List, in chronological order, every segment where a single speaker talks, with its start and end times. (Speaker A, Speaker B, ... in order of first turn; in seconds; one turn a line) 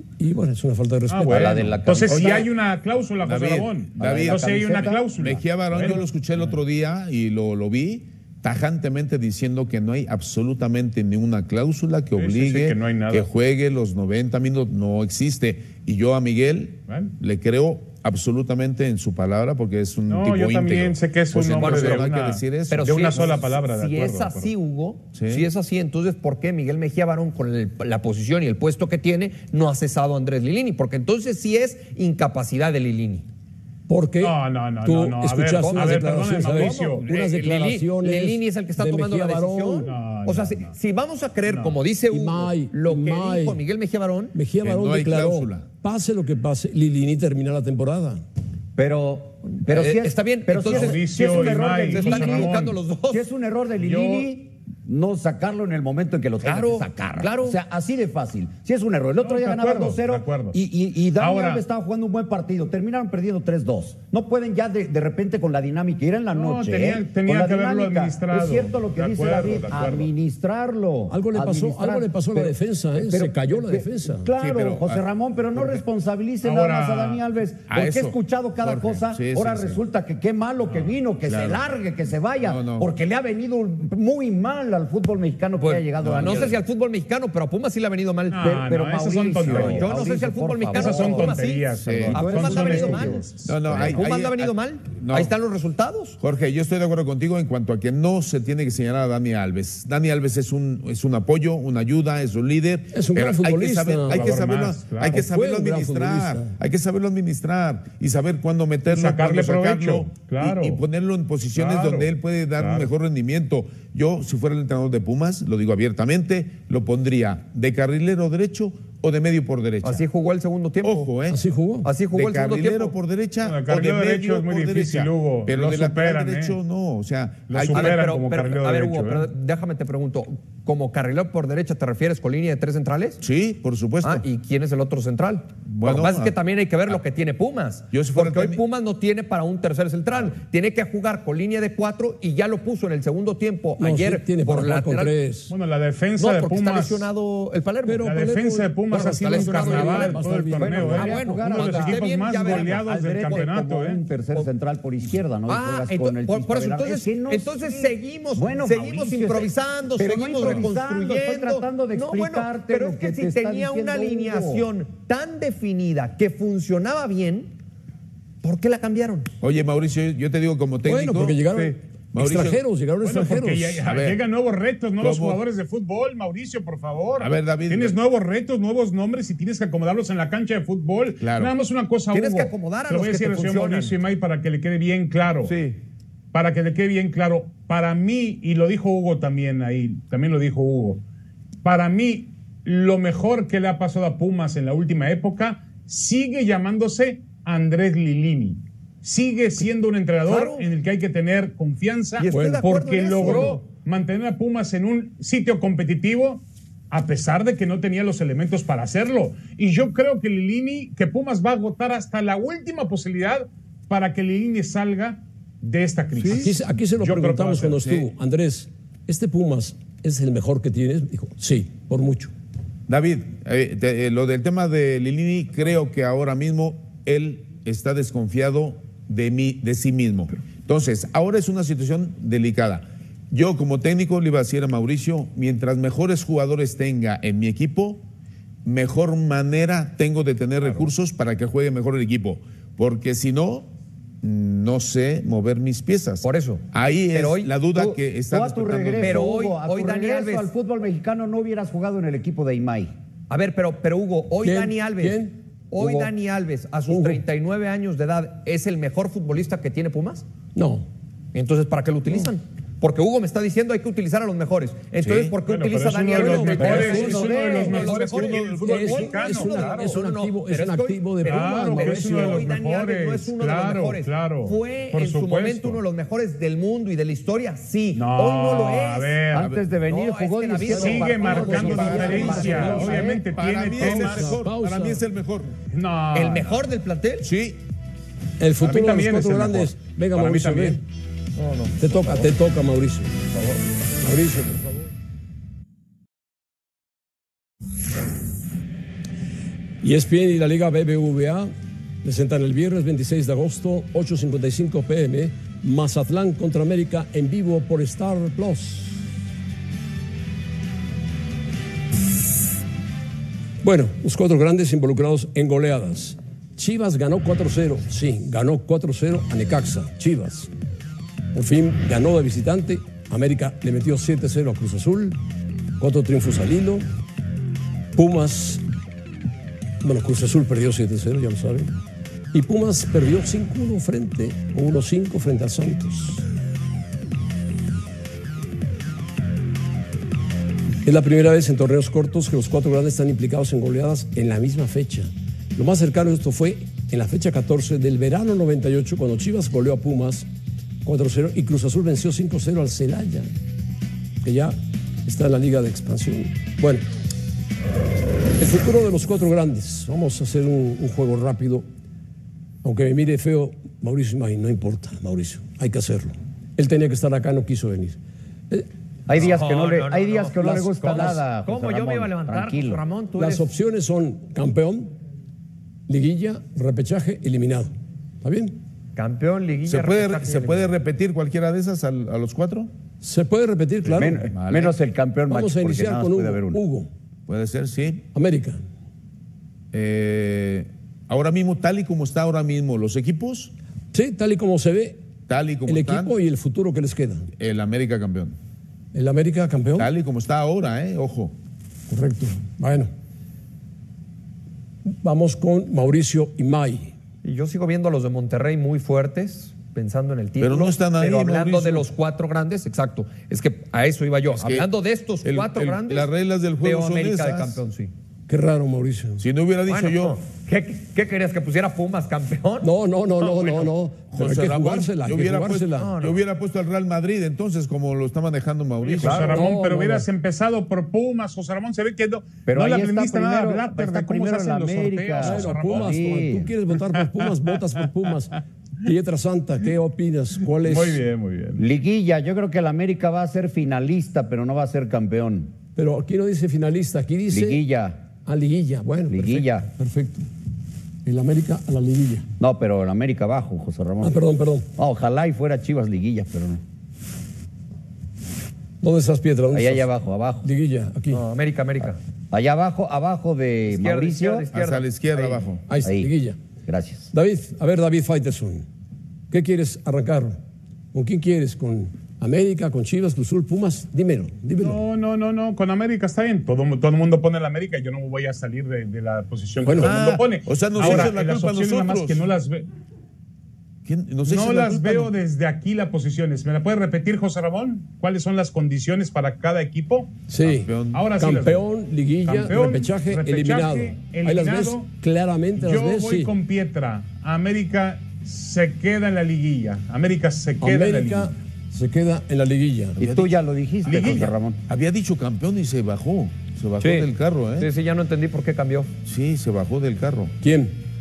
Speaker A: 0.2-1.8
Speaker B: 1.1-6.5
Speaker C: 1.3-2.5
Speaker D: 2.1-2.4
Speaker D: 3.2-23.3
Speaker C: 4.0-5.1
Speaker B: 12.2-13.3
Speaker B: 20.1-24.5
Speaker E: 21.6-22.1
Speaker E: 22.7-33.2
Speaker D: 25.1-25.4
Speaker A: 33.9-39.9
Speaker B: 34.2-37.1
Speaker E: 35.5-44.3
Speaker B: 39.8-40.7
Speaker B: 41.4-41.8
Speaker A: 42.1-43.6
Speaker A: 44.3-48.2
Speaker D: 44.6-45.6
Speaker C: 48.8-86.6
Speaker E: 49.4-53.2
Speaker B: 50.6-52.8
Speaker B: 53.8-54.3
Speaker E: 56.4-57.6
Speaker B: 59.2-60.5
Speaker B: 61.2-61.6
Speaker B: 66.3-70.1
Speaker A: 71.1-74.3
Speaker D: 74.4-75.0
Speaker B: 76.4-77.2
Speaker D: 77.7-79.8
Speaker D: 81.2-81.6
Speaker D: 82.4-82.9
Speaker E: 85.6-88.4
Speaker D: 85.9-86.6
Speaker B: 88.3-90.0
Speaker C: 88.4-91.4
Speaker E: 89.4-96.2
Speaker B: 90.7-93.3
Speaker D: 91.8-92.9
Speaker C: 92.1-94.0
Speaker D: 93.4-95.3
Speaker D: 96.2-120.0
Speaker A: 102.9-104.3
Speaker B: 104.1-105.2
Speaker A: 105.1-106.5
Speaker B: 108.9-110.8
Speaker B: 111.5-112.9
Speaker E: 119.8-121.1
Speaker D: 120.8-121.4
Speaker A: 121.3-121.9
Speaker E: 121.8-122.9
Speaker D: 122.1-128.1
Speaker B: 123.4-126.6
Speaker B: 127.5-129.3
Speaker E: 127.7-133.2
Speaker D: 133.2-134.2
Speaker E: 134.0-145.1
Speaker D: 135.6-136.4
Speaker D: 137.9-138.6
Speaker A: 143.8-145.5
Speaker B: 145.5-147.1
Speaker E: 146.2-148.1
Speaker A: 147.8-151.1
Speaker B: 148.0-154.0
Speaker E: 149.0-150.2
Speaker C: 150.6-164.7
Speaker E: 150.9-153.5
Speaker E: 155.5-167.5
Speaker E: 168.4-169.3
Speaker D: 169.4-171.5
Speaker A: 170.8-173.8
Speaker D: 172.1-172.6
Speaker B: 173.1-185.5
Speaker D: 173.8-174.2
Speaker D: 175.0-175.4
Speaker D: 177.2-178.0
Speaker D: 181.2-181.5
Speaker E: 182.1-184.0
Speaker D: 185.4-185.8
Speaker B: 186.3-191.0
Speaker B: 191.6-217.8
Speaker E: 200.2-200.7
Speaker E: 202.2-203.6
Speaker A: 202.3-202.7
Speaker D: 216.2-216.5
Speaker A: 216.2-222.3
Speaker D: 222.9-238.0
Speaker D: 238.6-243.7
Speaker D: 244.2-249.2
Speaker E: 246.2-247.5
Speaker C: 247.7-252.9
Speaker E: 249.0-250.5
Speaker E: 253.3-260.2
Speaker A: 254.4-255.3
Speaker C: 255.8-256.1
Speaker A: 256.9-257.2
Speaker A: 260.5-260.9
Speaker E: 261.3-279.2
Speaker D: 265.0-265.3
Speaker B: 265.4-270.0
Speaker A: 266.2-267.3
Speaker C: 267.0-267.8
Speaker D: 267.8-268.5
Speaker A: 268.6-272.4
Speaker B: 271.2-275.8
Speaker B: 277.9-279.5
Speaker C: 279.3-283.3
Speaker D: 279.3-279.6
Speaker E: 279.8-282.5
Speaker A: 280.7-283.0
Speaker B: 280.8-284.5
Speaker D: 281.5-285.5
Speaker A: 283.7-285.0
Speaker B: 285.7-286.5
Speaker E: 286.1-287.3
Speaker D: 287.2-287.6
Speaker A: 288.4-290.8
Speaker B: 288.6-290.8
Speaker E: 291.4-292.3
Speaker A: 291.8-293.1
Speaker A: 294.0-294.7
Speaker A: 299.8-301.5
Speaker A: 302.0-309.0
Speaker A: 313.6-320.5
Speaker A: 321.3-325.2
Speaker A: 325.8-326.8
Speaker A: 327.9-328.6
Speaker A: 329.8-331.7
Speaker A: 332.3-336.2
Speaker A: 340.8-350.3
Speaker A: 350.8-353.3
Speaker A: 354.2-356.8
Speaker A: 358.4-361.6
Speaker A: 362.6-368.0
Speaker C: 369.1-372.8
Speaker E: 369.1-373.5
Speaker A: 373.2-374.9
Speaker A: 375.9-378.6
Speaker E: 378.9-380.7
Speaker D: 379.6-382.7
Speaker A: 383.0-384.3
Speaker C: 383.9-386.6
Speaker D: 384.3-384.7
Speaker A: 385.3-386.9
Speaker D: 387.3-388.0
Speaker A: 388.1-388.6
Speaker D: 389.7-393.5
Speaker A: 393.9-395.0
Speaker D: 395.3-396.1
Speaker A: 395.7-397.3
Speaker D: 397.4-398.4
Speaker A: 398.9-399.9
Speaker D: 399.8-401.3
Speaker A: 401.9-402.9
Speaker A: 405.0-406.9
Speaker E: 407.2-417.9
Speaker D: 410.4-411.9
Speaker D: 414.3-414.6
Speaker D: 415.2-417.6
Speaker A: 418.3-419.2
Speaker D: 419.2-420.2
Speaker E: 419.7-422.7
Speaker A: 422.6-425.9
Speaker D: 424.1-429.4
Speaker E: 425.8-426.2
Speaker B: 428.8-436.0
Speaker A: 429.0-430.1
Speaker C: 432.5-436.5
Speaker A: 435.2-441.0
Speaker B: 440.6-441.6
Speaker C: 441.6-445.5
Speaker A: 445.8-447.6
Speaker C: 447.3-448.0
Speaker A: 448.2-450.2
Speaker C: 449.1-449.7
Speaker A: 451.0-452.3
Speaker C: 452.4-454.2
Speaker A: 454.0-454.6
Speaker C: 454.8-456.6
Speaker A: 458.8-459.9
Speaker C: 459.5-460.5
Speaker A: 460.4-461.2
Speaker E: 461.1-462.0
Speaker C: 462.3-464.5
Speaker E: 463.6-465.4
Speaker D: 464.5-465.6
Speaker A: 465.7-466.4
Speaker C: 465.8-466.1
Speaker C: 466.6-467.1
Speaker A: 467.1-468.6
Speaker A: 469.3-470.4
Speaker A: 470.9-474.8
Speaker B: 474.6-482.7
Speaker A: 479.6-479.9
Speaker D: 479.8-482.2
Speaker A: 480.8-481.1
Speaker D: 483.9-485.1
Speaker B: 484.2-490.1
Speaker A: 490.3-496.3
Speaker D: 490.4-491.1
Speaker B: 490.9-491.6
Speaker B: 492.2-494.9
Speaker B: 495.6-501.3
Speaker A: 500.6-503.0
Speaker D: 503.0-503.3
Speaker C: 503.0-504.6
Speaker B: 503.9-504.3
Speaker D: 504.0-507.7
Speaker E: 506.8-508.9
Speaker D: 509.0-510.3
Speaker A: 510.4-510.7